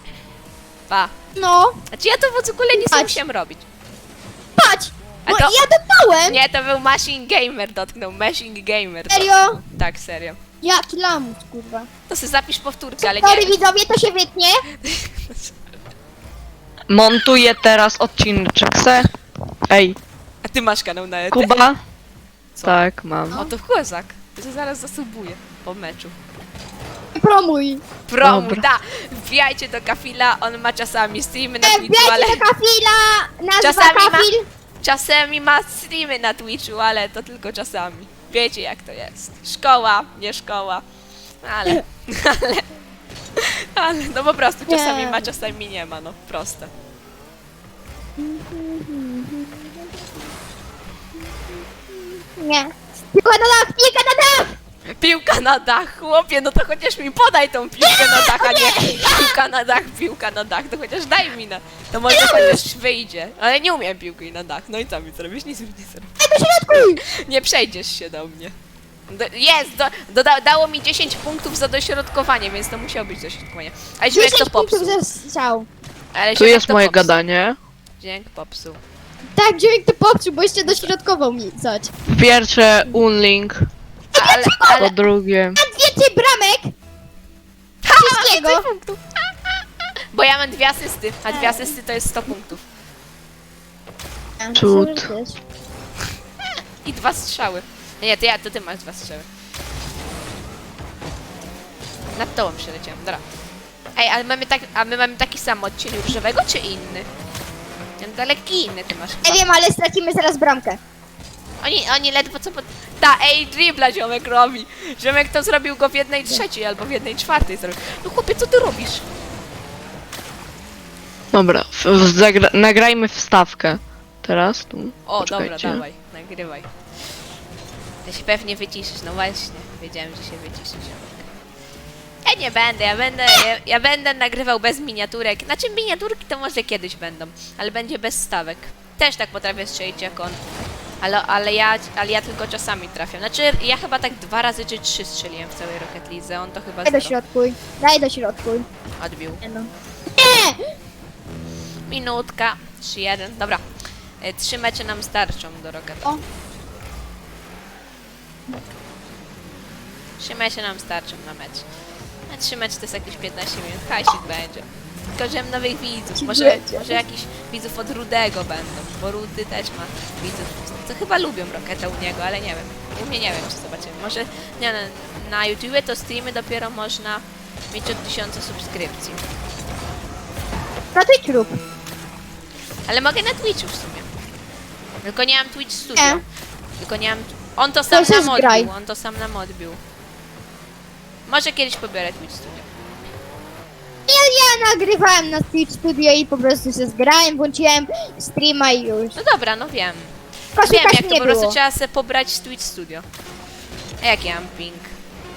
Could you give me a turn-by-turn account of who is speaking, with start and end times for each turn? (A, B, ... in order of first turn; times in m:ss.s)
0:00.9-0:01.1 A
0:01.4-0:01.8 B
0:01.9-0:03.6 A
0:02.7-0:03.2 B
0:04.6-0:06.4 B
0:05.2-0:05.6 A
0:06.2-0:10.4 A
0:09.1-0:09.6 B
0:10.6-0:11.9 B
0:12.1-0:13.6 A
0:13.0-0:14.6 B
0:14.8-0:15.6 A
0:16.9-0:19.1 C
0:19.7-0:20.0 C
0:20.4-0:21.6 A
0:21.3-0:21.8 C
0:22.6-0:23.4 C
0:23.3-0:26.2 A
0:27.1-0:27.8 B
0:28.1-0:32.4 A
0:28.2-0:28.6 C
0:31.6-0:34.4 B
0:33.6-0:34.3 A
0:34.8-0:40.8 A
0:41.4-0:42.7 A
0:43.4-0:46.7 A
0:44.7-0:45.3 B
0:48.2-0:49.6 B
0:52.4-0:54.5 B
0:55.0-1:06.1 A
0:57.8-0:59.3 B
1:02.1-1:02.6 B
1:06.2-1:07.0 B
1:07.0-1:08.5 A
1:09.1-1:15.0 A
1:14.1-1:15.7 B
1:16.1-1:17.1 A
1:16.4-1:17.6 C
1:18.0-1:18.8 A
1:19.4-1:21.9 B
1:22.1-1:23.7 C
1:24.1-1:24.9 B
1:24.2-1:24.9 A
1:24.8-1:25.6 C
1:25.6-1:26.7 B
1:27.8-1:29.0 A
1:27.9-1:28.6 B
1:30.1-1:32.6 A
1:31.3-1:31.7 B
1:34.4-1:35.4 B
1:34.5-1:35.1 C
1:36.8-1:39.3 A
1:42.2-1:43.2 A
1:44.0-1:47.1 A
1:48.0-1:49.4 A
1:49.2-1:50.8 B
1:51.6-1:59.0 A
2:01.3-2:05.8 C
2:05.0-2:06.7 A
2:08.0-2:11.3 A
2:12.2-2:20.4 A
2:21.0-2:27.1 A
2:26.8-2:28.6 B
2:29.0-2:29.4 A
2:29.4-2:30.6 B
2:31.9-2:33.6 A
2:34.2-2:36.1 A
2:40.2-2:41.6 A
2:42.3-2:59.2 A
2:46.2-2:47.0 B
3:00.9-3:01.5 B
3:02.9-3:04.1 A
3:05.0-3:06.2 A
3:06.0-3:06.2 B
3:06.8-3:09.8 A
3:07.9-3:08.7 B
3:11.3-3:12.7 A
3:14.1-3:19.2 B
3:19.2-3:23.0 A
3:20.6-3:21.6 B
3:24.0-3:24.9 A